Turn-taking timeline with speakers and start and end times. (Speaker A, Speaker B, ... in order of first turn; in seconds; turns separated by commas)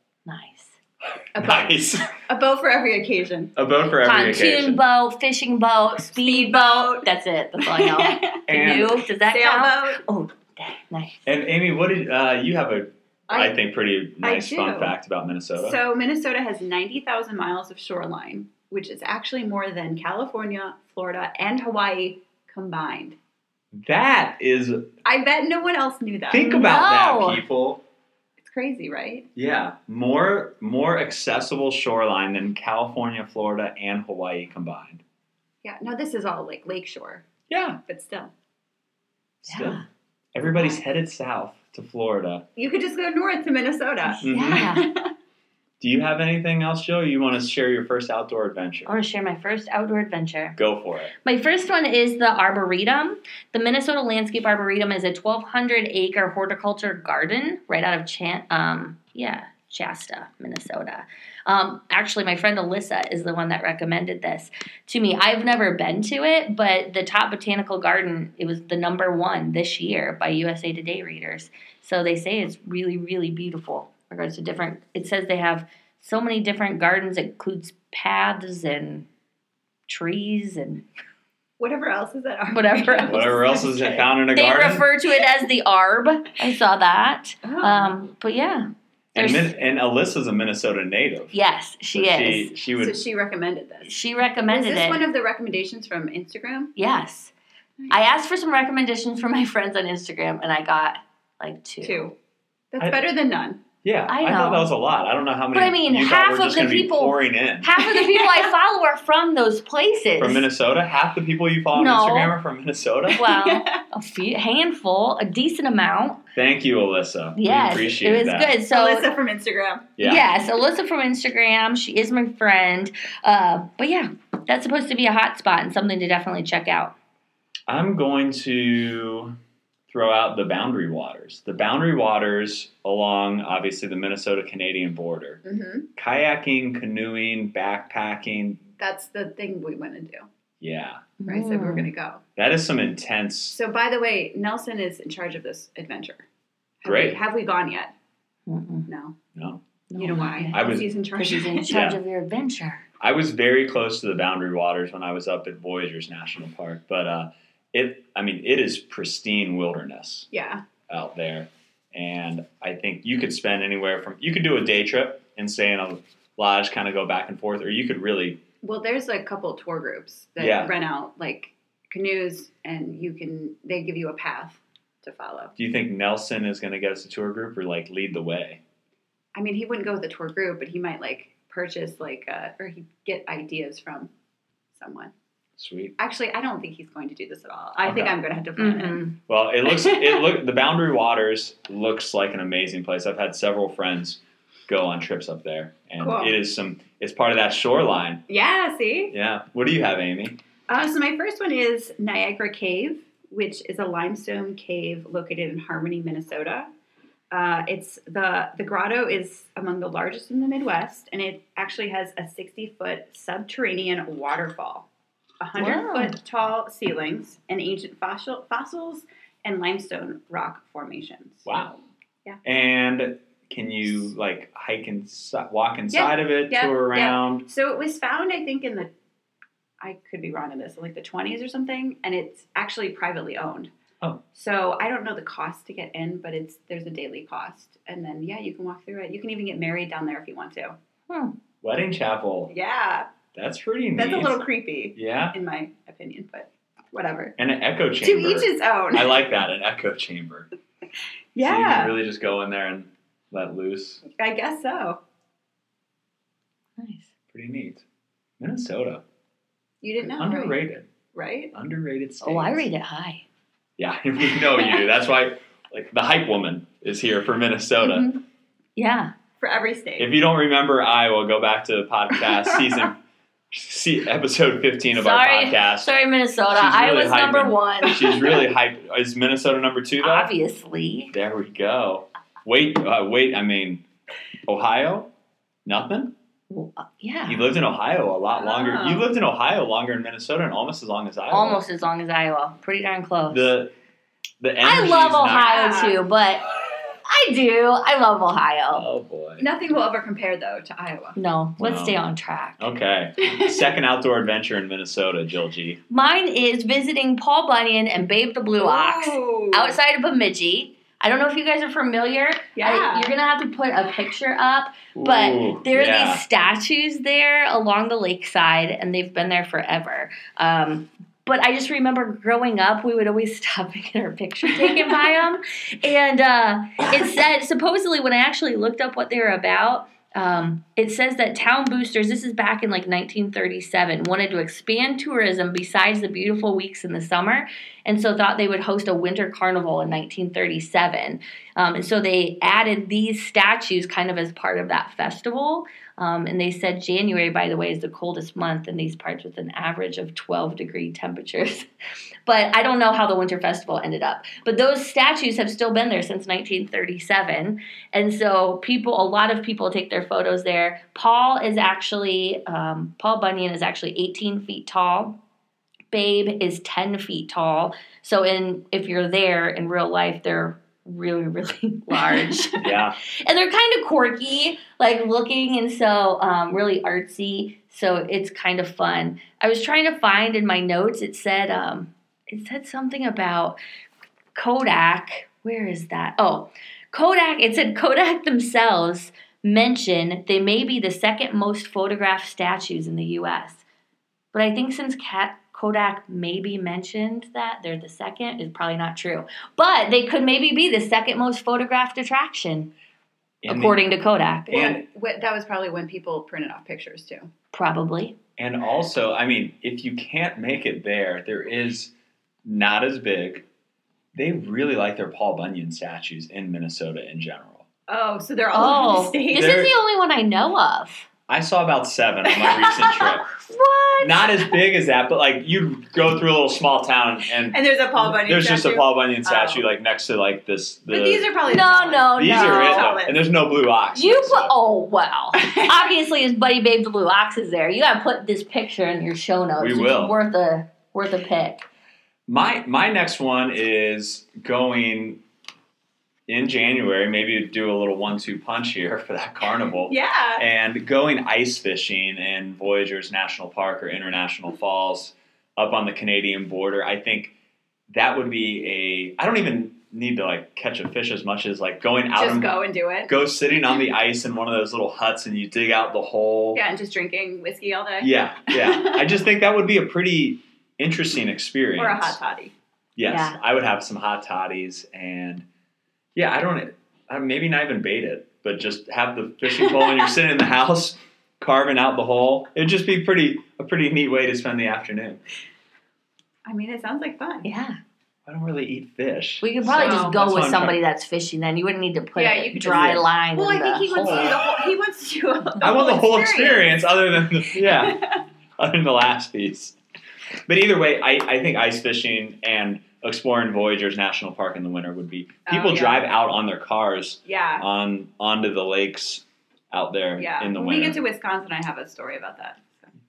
Speaker A: 0.3-0.8, Speaker B: 1.2-2.1, Speaker A: 1.4-1.7, Speaker C: 2.3-3.5, Speaker B: 3.5-4.8, Speaker A: 4.0-11.3, Speaker C: 6.1-10.0, Speaker B: 8.5-9.0, Speaker B: 11.2-15.8, Speaker C: 13.3-13.6, Speaker C: 14.2-14.9, Speaker C: 15.6-23.2, Speaker B: 23.8-24.9, Speaker C: 25.1-26.4, Speaker B: 26.3-27.8, Speaker A: 26.3-27.4, Speaker C: 28.4-29.3, Speaker B: 29.4-35.0, Speaker C: 35.6-37.2, Speaker B: 37.5-37.8, Speaker C: 37.9-38.3, Speaker B: 39.4-39.8, Speaker A: 39.5-39.9, Speaker B: 40.3-42.5, Speaker C: 40.5-40.8, Speaker C: 42.6-45.1, Speaker A: 44.1-44.9, Speaker B: 44.2-44.8, Speaker B: 45.8-49.0, Speaker A: 48.9-50.6, Speaker B: 50.6-51.1, Speaker A: 51.2-79.1, Speaker A: 79.9-80.8, Speaker C: 81.6-84.1, Speaker A: 82.5-83.3, Speaker B: 83.0-84.9, Speaker A: 84.3-89.5, Speaker C: 87.5-88.0, Speaker B: 89.1-91.3, Speaker A: 91.3-92.5, Speaker B: 92.0-93.0, Speaker C: 92.8-93.9, Speaker A: 93.8-95.0, Speaker C: 94.5-96.7, Speaker A: 96.8-97.3, Speaker A: 97.9-102.1, Speaker C: 101.8-102.1, Speaker C: 102.7-103.6, Speaker B: 103.8-107.7, Speaker A: 104.1-104.7, Speaker A: 105.5-110.5, Speaker C: 107.8-108.5, Speaker B: 110.2-113.2, Speaker A: 111.7-112.4, Speaker A: 113.1-116.2, Speaker C: 113.2-113.7, Speaker B: 116.3-118.6, Speaker A: 117.4-119.1, Speaker C: 118.7-119.9, Speaker B: 120.0-120.3, Speaker A: 120.0-126.9, Speaker B: 127.7-129.4, Speaker B: 129.9-135.4, Speaker C: 135.4-135.9, Speaker B: 136.0-138.6, Speaker C: 138.8-140.3, Speaker B: 140.6-141.1, Speaker A: 141.2-141.9, Speaker C: 141.3-142.2, Speaker B: 142.4-143.6, Speaker C: 143.5-146.2, Speaker C: 146.8-147.9, Speaker B: 146.8-147.2, Speaker A: 148.5-148.9, Speaker C: 148.9-149.2, Speaker B: 149.3-149.6, Speaker A: 149.9-152.8, Speaker C: 150.0-151.8, Speaker B: 150.5-150.9, Speaker B: 151.7-152.0, Speaker B: 153.0-160.3, Speaker C: 160.3-160.6, Speaker B: 160.9-168.4, Speaker C: 168.6-175.5, Speaker B: 170.4-170.7, Speaker B: 175.6-178.6, Speaker C: 179.3-184.1, Speaker C: 184.8-185.1, Speaker B: 185.6-185.9, Speaker C: 186.0-189.0, Speaker B: 187.8-188.2, Speaker A: 188.6-189.2, Speaker B: 189.3-198.2, Speaker C: 189.7-190.3, Speaker C: 196.0-196.4, Speaker C: 198.3-199.1, Speaker B: 199.1-200.4, Speaker C: 200.7-206.7, Speaker C: 207.3-214.9, Speaker C: 215.4-221.5, Speaker A: 215.6-216.2, Speaker B: 221.4-221.8, Speaker B: 222.4-227.5, Speaker C: 225.9-228.9, Speaker C: 229.8-233.7, Speaker C: 234.3-240.8, Speaker A: 241.1-241.4, Speaker B: 241.6-242.5, Speaker C: 242.5-243.1, Speaker B: 243.3-244.4, Speaker C: 244.0-247.4, Speaker B: 244.9-245.4, Speaker B: 247.4-250.5, Speaker C: 248.0-249.2, Speaker C: 251.3-252.0, Speaker B: 251.4-254.0, Speaker C: 254.2-255.0, Speaker A: 256.8-257.1, Speaker B: 257.3-257.8, Speaker B: 258.4-259.0, Speaker C: 259.8-260.6, Speaker B: 260.2-260.9, Speaker C: 261.1-261.5, Speaker B: 261.5-262.7, Speaker A: 262.2-263.2, Speaker B: 263.8-268.1, Speaker A: 267.8-268.2, Speaker A: 268.8-269.1, Speaker C: 269.4-270.1, Speaker B: 270.0-272.9, Speaker C: 272.4-272.9, Speaker B: 273.5-275.9, Speaker A: 274.9-278.1, Speaker B: 276.5-280.3, Speaker A: 280.0-281.1, Speaker B: 281.1-283.8, Speaker B: 284.5-285.1, Speaker B: 285.7-286.1, Speaker A: 286.5-287.5, Speaker B: 287.3-291.6, Speaker C: 288.4-289.1, Speaker A: 291.3-293.5, Speaker B: 293.3-293.7, Speaker B: 294.4-295.5, Speaker A: 294.6-298.9, Speaker C: 295.2-296.0, Speaker B: 298.7-299.5, Speaker C: 299.4-301.2, Speaker A: 301.1-302.6, Speaker B: 301.6-302.1, Speaker B: 302.6-305.8, Speaker A: 305.9-351.7, Speaker C: 308.6-309.8, Speaker C: 312.6-313.1, Speaker B: 314.9-316.2, Speaker A: 352.3-365.2, Speaker A: 365.9-372.6, Speaker B: 372.6-373.0, Speaker A: 373.2-383.6, Speaker A: 384.4-393.6, Speaker A: 394.3-402.7, Speaker B: 403.4-403.8, Speaker A: 403.5-404.8, Speaker C: 404.5-407.3, Speaker B: 404.5-404.8, Speaker A: 407.5-408.2, Speaker B: 408.4-411.9, Speaker B: 412.4-413.5, Speaker B: 414.1-417.6, Speaker C: 417.9-419.7, Speaker A: 418.5-421.1, Speaker B: 419.3-419.7, Speaker B: 421.3-423.3, Speaker C: 422.4-422.8, Speaker A: 423.3-424.3, Speaker B: 424.0-431.3, Speaker C: 427.5-429.7, Speaker C: 430.9-433.2, Speaker A: 431.4-433.0, Speaker B: 432.1-434.5, Speaker A: 433.9-441.6, Speaker C: 435.4-435.8, Speaker B: 439.6-440.2, Speaker B: 442.3-445.2, Speaker B: 446.3-457.3, Speaker C: 449.9-450.4, Speaker B: 457.9-462.5, Speaker C: 462.2-463.1, Speaker B: 463.1-466.6, Speaker C: 466.5-469.2, Speaker B: 468.0-472.2, Speaker C: 471.8-472.5, Speaker B: 473.0-475.4, Speaker A: 473.1-473.4, Speaker B: 476.1-485.2, Speaker C: 486.4-487.5, Speaker A: 487.4-487.8, Speaker B: 488.3-490.8, Speaker A: 489.4-494.4, Speaker C: 489.7-490.2, Speaker C: 492.2-496.8, Speaker B: 492.7-493.0, Speaker B: 495.6-498.0, Speaker C: 497.6-498.2, Speaker B: 498.6-499.8, Speaker B: 500.5-511.0, Speaker C: 505.5-506.0, Speaker C: 507.2-507.7, Speaker C: 510.2-512.9